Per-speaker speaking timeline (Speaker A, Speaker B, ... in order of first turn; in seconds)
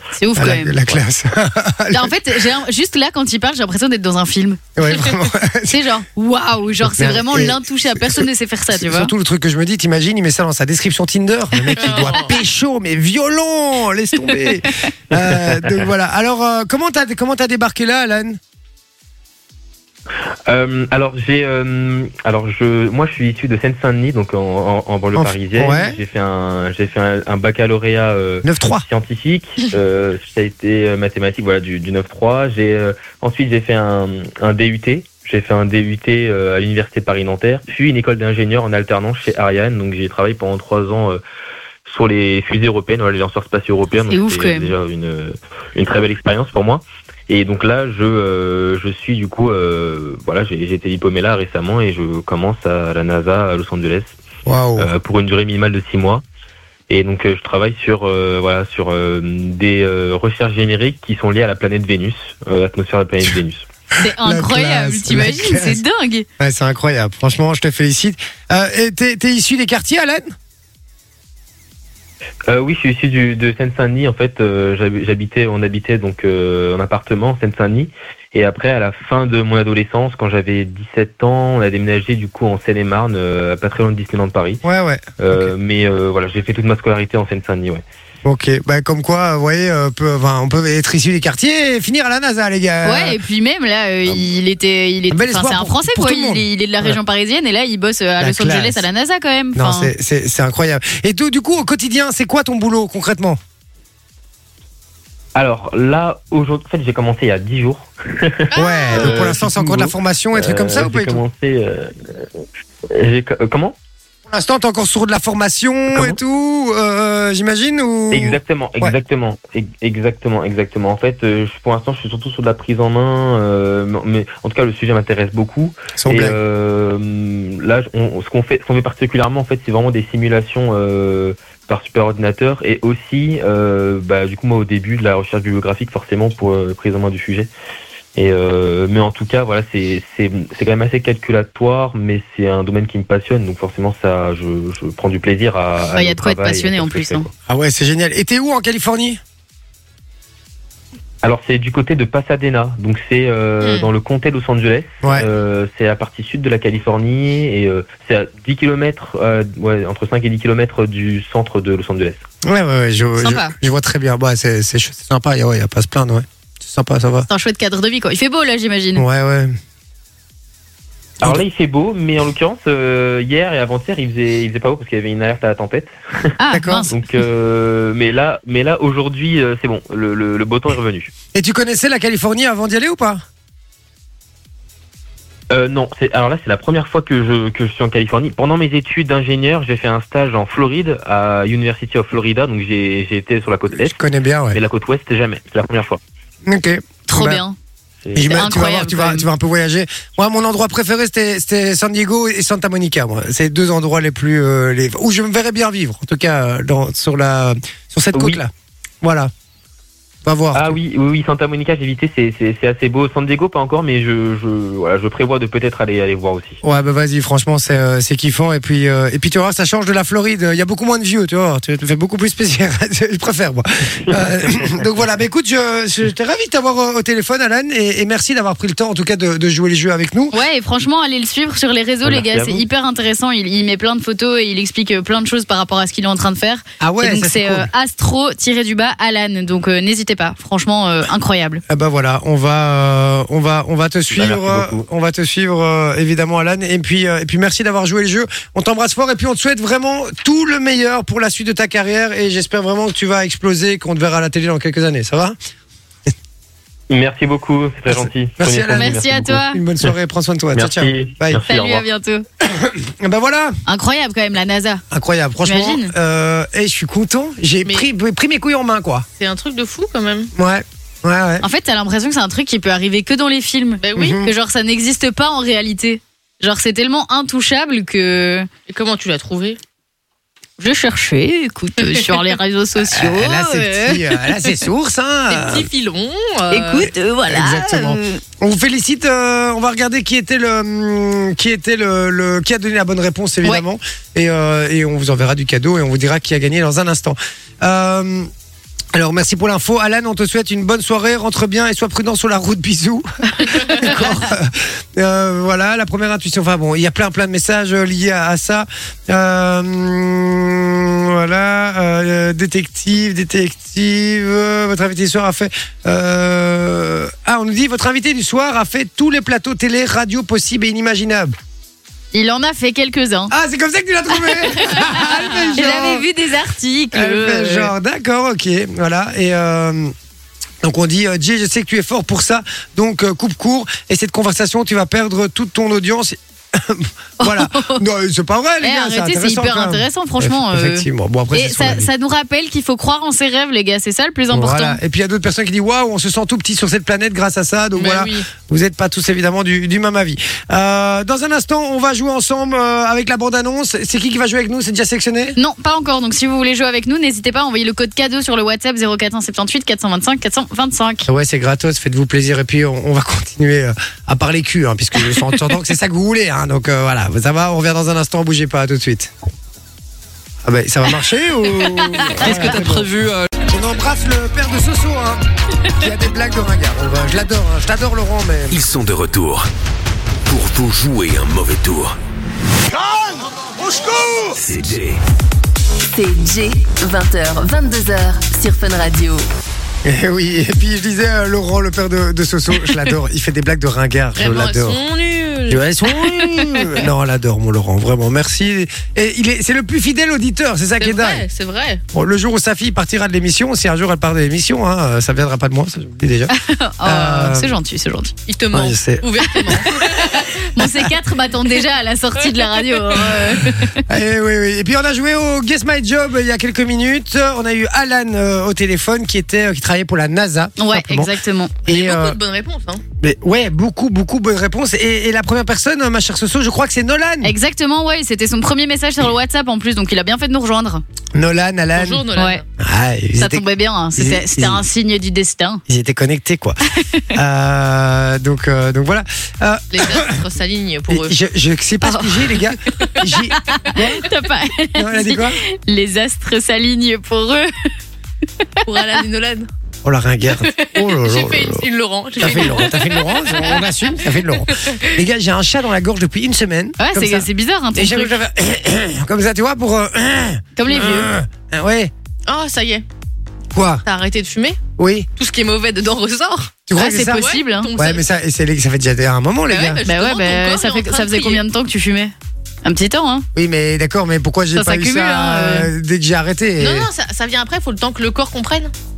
Speaker A: 0.2-0.8, 1.9-5.1, 5.7-9.1, 44.1-44.7, 64.0-66.3, 92.8-99.9, 145.9-147.3, 163.2-163.5, 167.3-169.0, 176.4-176.9, 197.1-197.6, 198.2-199.3, 230.3-241.6, 258.8-259.6, 261.5-262.2, 263.7-264.8, 265.4-265.9, 271.4-278.5, 280.6-284.5, 286.5-288.2, 303.4-303.9, 322.1-323.3, 324.2-327.7, 337.2-337.8, 338.6-344.8, 355.4-361.1, 371.9-372.5, 406.3-408.1, 409.8-413.8, 420.6-421.6, 427.2-430.8, 432.2-432.4, 433.2-435.6, 436.8-437.1, 441.8-442.4, 443.5-447.7, 456.8-458.2, 460.6-461.1, 466.8-467.7, 469.9-472.1, 472.6-473.3, 474.6-475.7
Speaker B: 0.4-2.2, 4.8-5.8, 6.8-18.4, 25.2-26.0, 28.4-28.9, 54.5-54.9, 64.0-65.8, 66.4-70.3, 84.6-85.5, 88.2-93.2, 95.1-97.0, 98.2-98.9, 99.5-103.4, 108.5-111.2, 114.3-118.9, 126.0-126.4, 147.5-149.2, 162.4-167.3, 169.0-169.6, 176.5-176.9, 181.3-183.2, 193.8-194.6, 196.4-197.4, 198.2-208.5, 209.0-209.3, 210.2-210.8, 216.6-230.3, 236.8-237.7, 241.7-255.4, 257.9-261.4, 262.4-263.6, 264.9-269.1, 270.4-271.4, 273.9-274.3, 282.8-285.7, 287.3-298.3, 298.9-303.1, 303.7-321.4, 323.3-326.1, 326.9-329.9, 330.6-341.9, 344.3-355.4, 361.1-369.1, 370.4-375.2, 375.8-378.6, 389.8-394.8, 395.5-401.2, 401.9-407.6, 408.5-409.1, 413.9-421.1, 421.7-422.2, 423.0-427.3, 431.1-432.1, 432.6-433.4, 434.0-434.7, 435.7-436.6, 437.1-440.2, 440.9-444.1, 444.8-445.4, 449.8-451.6, 452.2-461.9, 463.5-463.8, 464.8-465.1, 466.7-467.2, 467.8-469.8, 473.4-476.9
Speaker C: 11.7-12.3, 108.5-109.3, 153.6-153.9, 269.2-270.3, 273.8-274.2, 278.7-279.6, 285.3-286.9, 347.8-348.3, 394.2-395.6, 400.8-401.8, 408.3-410.3, 421.7-422.8, 431.8-432.4, 439.7-441.1, 448.6-449.5, 450.5-453.7, 454.4-455.0, 462.3-462.9, 463.9-464.6, 465.2-468.0, 469.5-471.4, 476.6-478.7
Speaker D: 20.5-41.2, 41.9-54.1, 54.8-56.2, 56.9-63.6, 72.5-84.6, 85.2-87.8, 105.3-112.3, 112.9-113.8, 115.9-116.2, 118.1-137.5, 138.2-147.3, 151.2-162.2, 171.2-176.3, 176.9-181.1, 185.5-194.0, 194.5-196.0, 198.1-198.4, 208.1-208.4, 210.5-216.6, 232.1-232.6, 244.1-244.8, 256.9-259.9, 260.6-261.9
Speaker E: 372.2-373.3, 378.5-379.5, 380.3-382.0, 384.3-385.0
Speaker F: 385.9-389.3